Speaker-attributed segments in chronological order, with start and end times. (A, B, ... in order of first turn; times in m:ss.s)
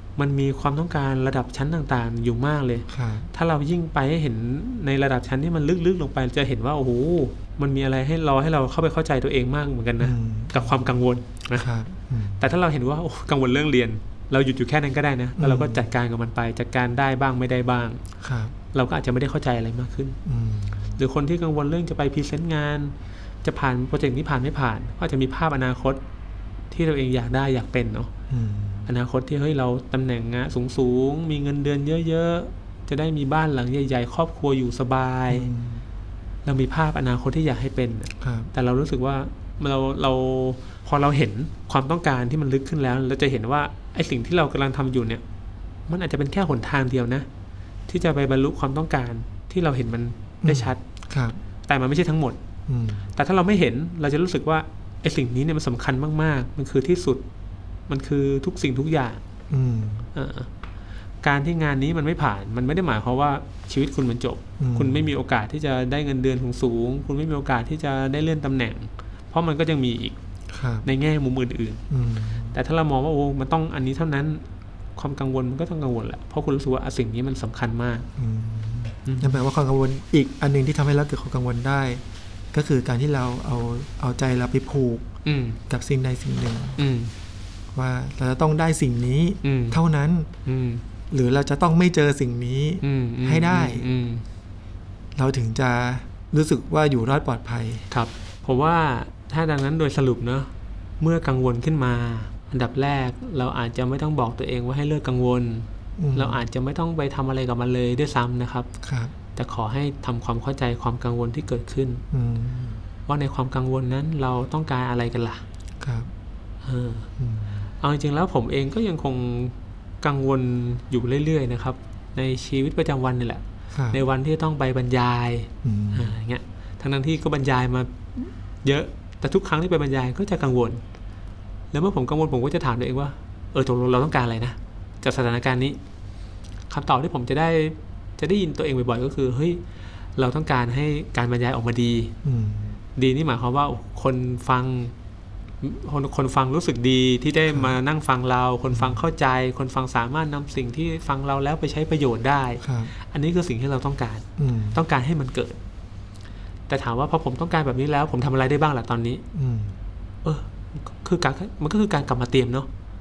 0:00.2-0:11.7 A
0:02.9-0:03.3 B
0:10.0-0:10.8 B
0:11.5-0:12.5 B
0:12.4-0:18.0 A
0:15.4-0:15.8 B
0:18.2-0:18.6 B
0:18.7-0:20.2 A
0:20.2-0:21.0 B
0:21.0-0:26.0 A
0:26.7-0:28.1 A
0:28.3-0:28.9 B
0:28.9-0:35.5 A
0:35.3-0:35.8 B
0:36.4-0:45.2 A
0:38.2-0:38.5 B
0:45.9-0:47.3 A
0:47.9-0:50.8 A
0:50.4-0:51.4 B
0:51.7-0:52.4 A
0:52.7-0:53.1 B
0:53.2-0:57.2 A
0:57.9-0:59.2 A
0:59.5-1:00.1 B
1:00.2-1:00.5 A
1:01.2-1:10.2 A
1:04.6-1:05.1 B
1:10.5-1:10.9 B
1:10.8-1:11.8 A
1:11.9-1:12.6 B
1:12.5-1:14.4 A
1:15.0-1:18.1 A
1:18.2-1:25.1 B
1:19.1-1:19.4 A
1:25.2-1:25.6 A
1:25.7-1:26.8 B
1:26.8-1:27.1 A
1:27.7-1:30.3 B
1:29.4-1:29.8 A
1:30.5-1:30.8 A
1:31.1-1:33.9 B
1:32.8-1:34.2 A
1:35.2-1:37.9 B
1:37.9-1:48.7 A
1:46.0-1:46.4 B
1:48.8-1:49.1 B
1:49.3-1:52.0 A
1:52.1-1:52.8 B
1:53.1-1:55.4 A
1:55.8-1:56.1 B
1:56.6-1:57.1 A
1:57.2-1:57.7 B
1:57.8-2:10.8 A
2:03.7-2:04.0 B
2:05.6-2:06.1 B
2:11.7-2:15.8 A
2:16.7-2:19.6 A
2:20.2-2:22.2 A
2:22.2-2:22.8 B
2:23.0-2:24.9 A
2:25.6-2:35.6 A
2:28.7-2:29.0 B
2:32.6-2:32.9 B
2:34.4-2:34.8 B
2:36.7-2:39.2 A
2:39.3-2:39.8 B
2:40.2-2:42.7 A